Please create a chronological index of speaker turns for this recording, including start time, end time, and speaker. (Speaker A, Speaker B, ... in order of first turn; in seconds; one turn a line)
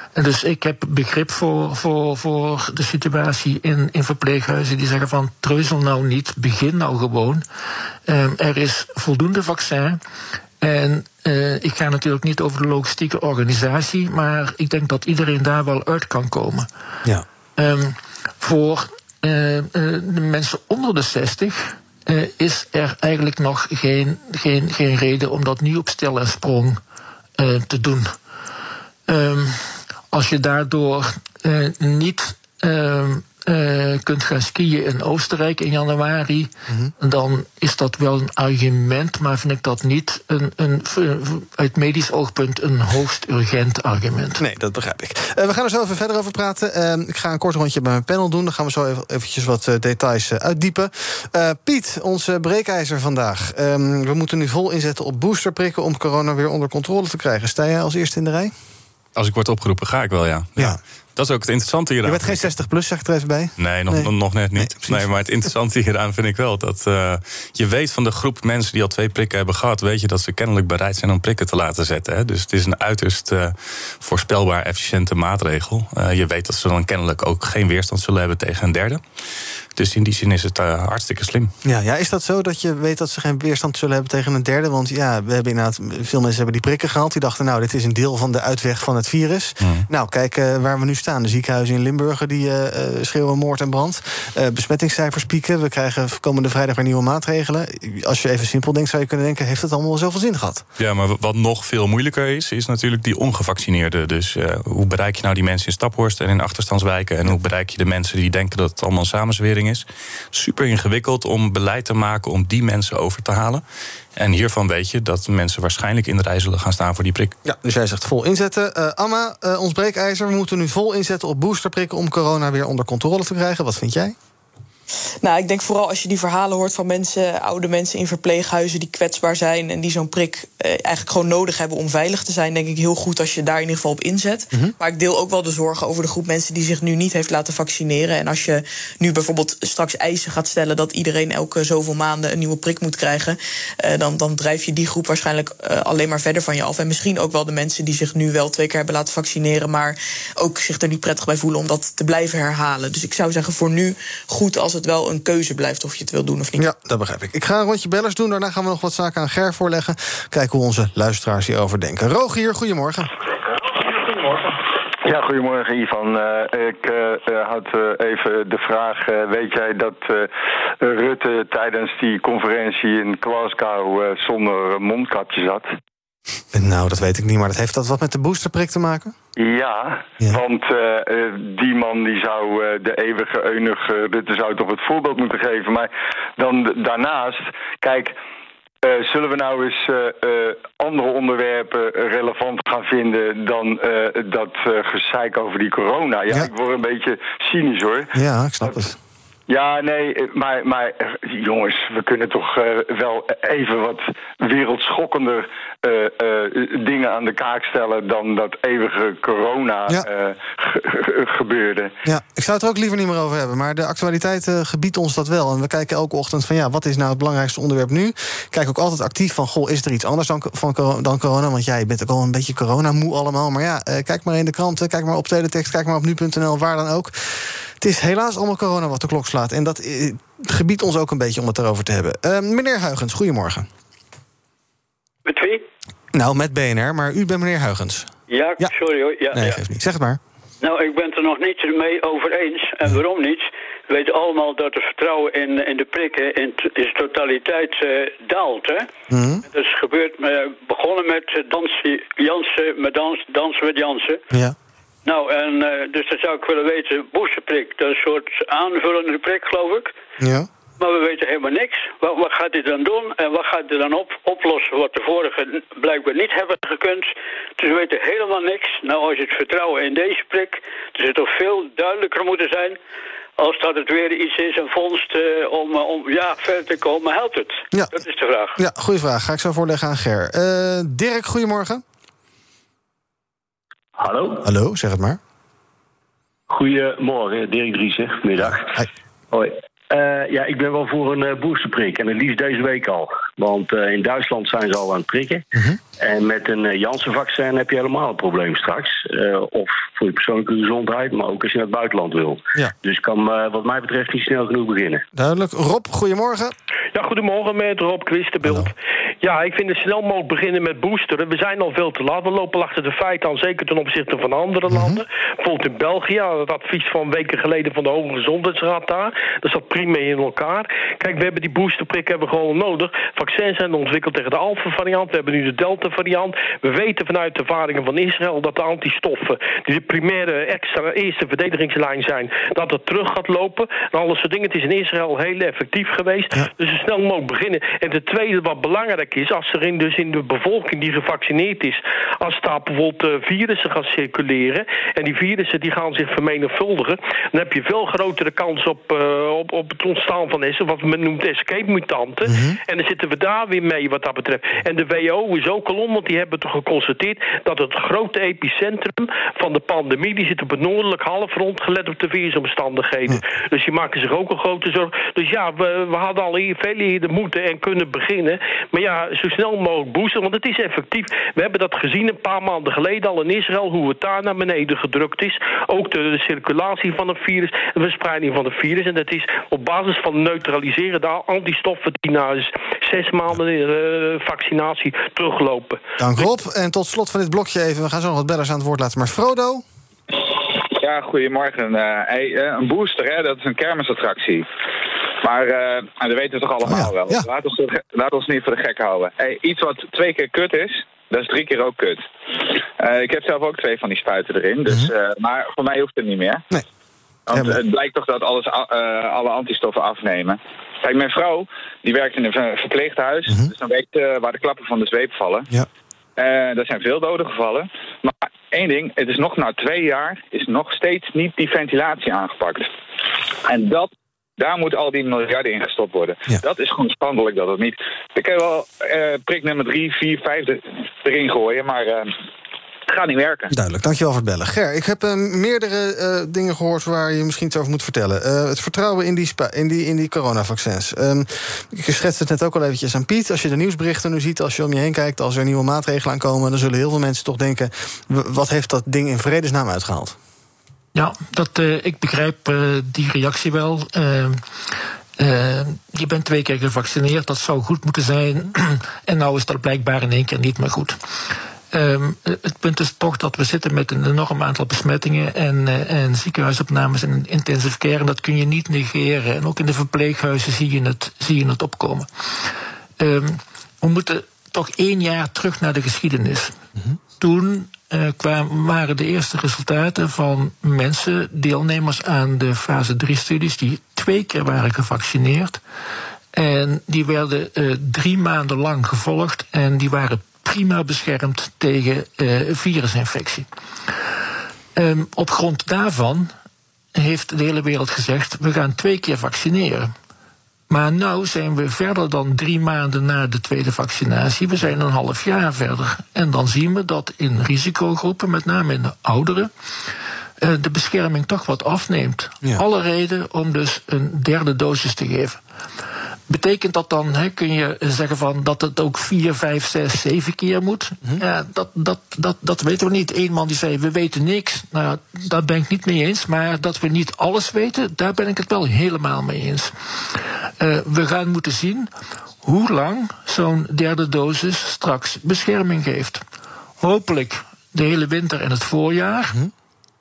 Speaker A: 0.1-7.4
Speaker A: 8.1-10.0
Speaker A: 10.6-16.7
Speaker A: 17.6-26.8
Speaker A: 27.4-28.1
Speaker A: 29.1-44.4
Speaker B: 44.4-58.5
Speaker C: 59.1-62.5
Speaker B: 62.0-65.1
Speaker C: 63.6-79.0
Speaker C: 79.8-81.5
Speaker B: 81.6-100.6
Speaker C: 89.6-89.8
Speaker C: 100.8-113.6
Speaker C: 114.2-117.3
Speaker B: 117.4-124.2
Speaker D: 125.2-156.7
Speaker B: 156.6-163.1
Speaker E: 165.0-175.7
Speaker B: 176.5-179.1
Speaker E: 179.4-188.1
Speaker E: 188.8-198.1
Speaker B: 198.1-199.0
Speaker E: 199.5-211.9
Speaker B: 212.0-227.1
Speaker B: 227.8-233.7
Speaker F: 235.2-235.6
Speaker B: 236.1-238.7
Speaker F: 238.3-239.6
Speaker B: 239.3-240.2
Speaker F: 240.6-248.9
Speaker B: 249.1-249.4
Speaker F: 249.5-254.2
Speaker F: 255.0-259.9
Speaker B: 260.2-260.5
Speaker F: 260.8-272.8
Speaker F: 273.4-278.6
Speaker B: 277.7-278.0
Speaker B: 278.5-281.8
Speaker G: 284.0-284.4
Speaker B: 284.4-285.2
Speaker G: 286.5-288.7
Speaker G: 289.3-295.4
Speaker G: 296.0-305.0
Speaker B: 305.1-306.5
Speaker H: 306.9-385.8
Speaker B: 308.4-308.7
Speaker B: 314.7-315.0
Speaker B: 352.2-352.6
Speaker B: 386.0-389.6
Speaker I: 390.1-394.4
Speaker I: 395.2-406.4
Speaker B: 396.6-397.2
Speaker I: 407.3-415.5
Speaker B: 407.3-407.6
Speaker I: 416.2-422.6
Speaker I: 423.4-432.1
Speaker I: 432.9-433.5
Speaker B: 433.5-450.1
Speaker A: 450.9-454.4
Speaker A: 455.2-461.0
Speaker A: 461.7-476.6
Speaker A: 477.2-485.6
Speaker A: 486.3-493.5
Speaker A: 494.8-496.3
Speaker A: 496.9-499.9
Speaker A: 500.7-509.5
Speaker A: 510.4-515.4
Speaker A: 516.3-531.9
Speaker A: 532.4-536.2
Speaker A: 536.8-539.4